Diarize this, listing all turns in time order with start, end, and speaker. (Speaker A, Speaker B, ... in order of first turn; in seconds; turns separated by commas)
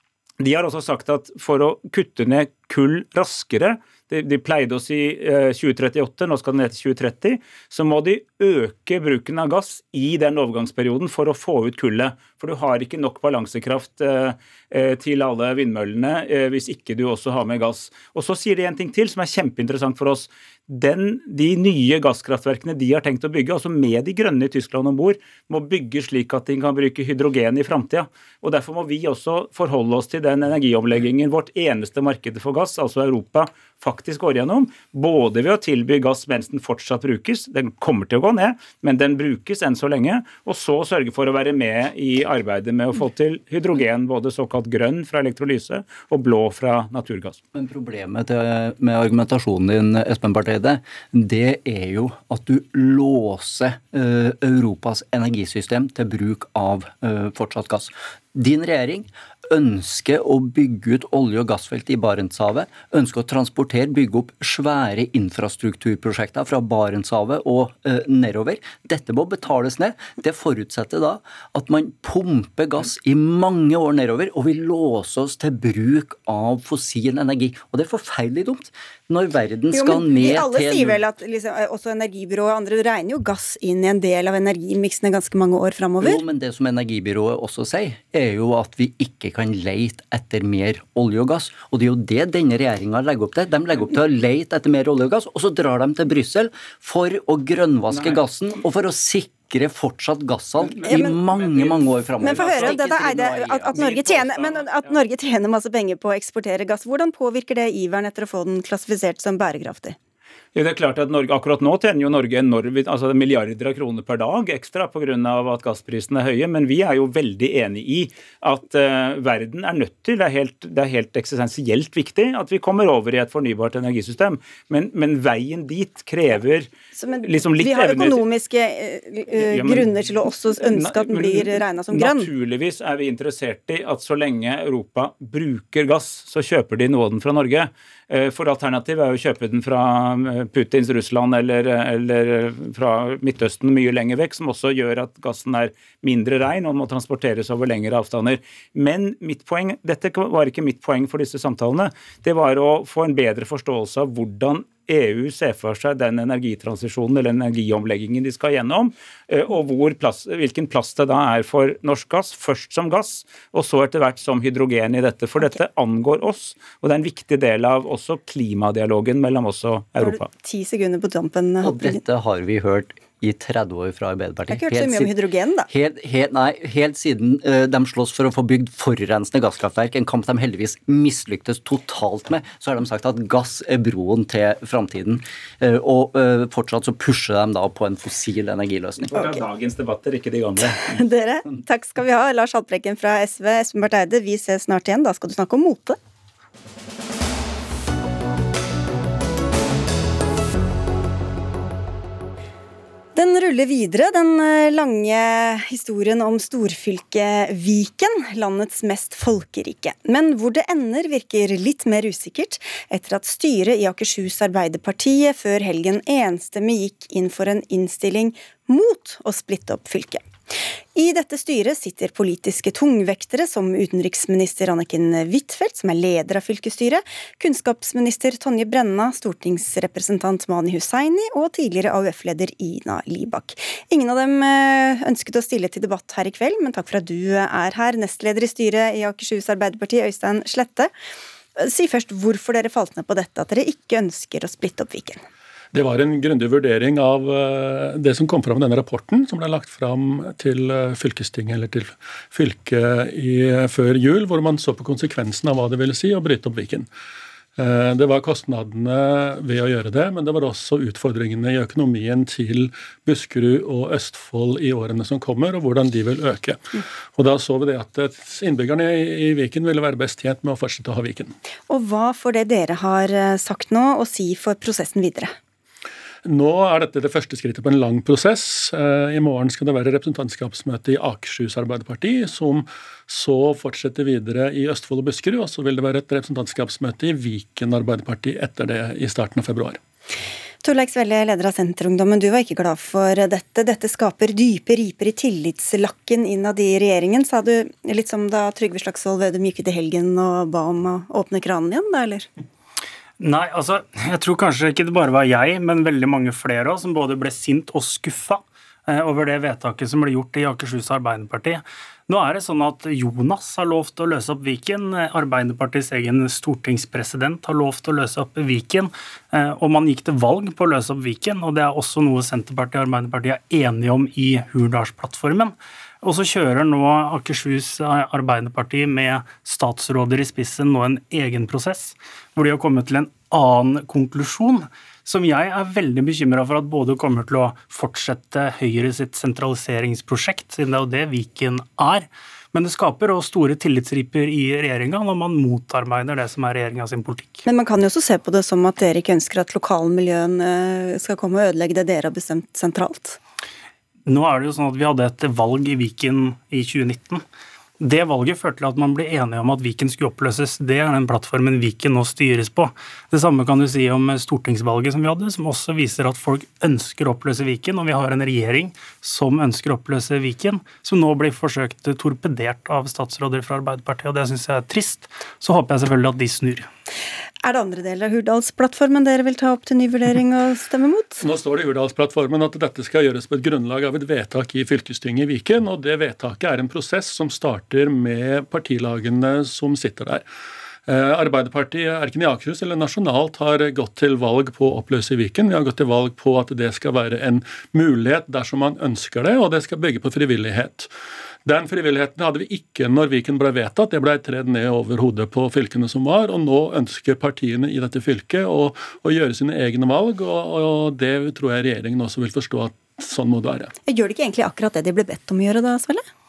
Speaker A: 0.4-47.4, Speaker B: 47.5-81.0, Speaker C: 79.7-86.2, Speaker B: 86.0-104.3, Speaker A: 97.9-98.2, Speaker A: 100.6-105.0, Speaker C: 100.8-101.2, Speaker C: 102.2-110.0, Speaker A: 110.5-126.7, Speaker C: 126.9-132.3, Speaker A: 127.2-128.2, Speaker A: 129.3-170.3, Speaker C: 170.0-172.0, Speaker B: 171.6-175.2, Speaker C: 174.5-175.7, Speaker B: 175.7-189.2, Speaker C: 189.1-189.4, Speaker A: 189.1-191.0, Speaker C: 190.9-196.0, Speaker C: 203.2-220.2, Speaker C: 220.9-240.9, Speaker C: 241.6-245.2, Speaker D: 245.7-256.9, Speaker D: 257.6-266.6, Speaker D: 267.1-271.3, Speaker C: 271.7-275.3, Speaker D: 276.2-289.8, Speaker C: 290.6-302.3, Speaker E: 303.2-347.4, Speaker C: 347.4-353.2, Speaker E: 354.1-357.2, Speaker E: 357.8-376.7, Speaker C: 377.4-381.2, Speaker D: 381.2-390.2, Speaker D: 390.9-400.9, Speaker D: 401.4-413.7, Speaker C: 413.9-416.0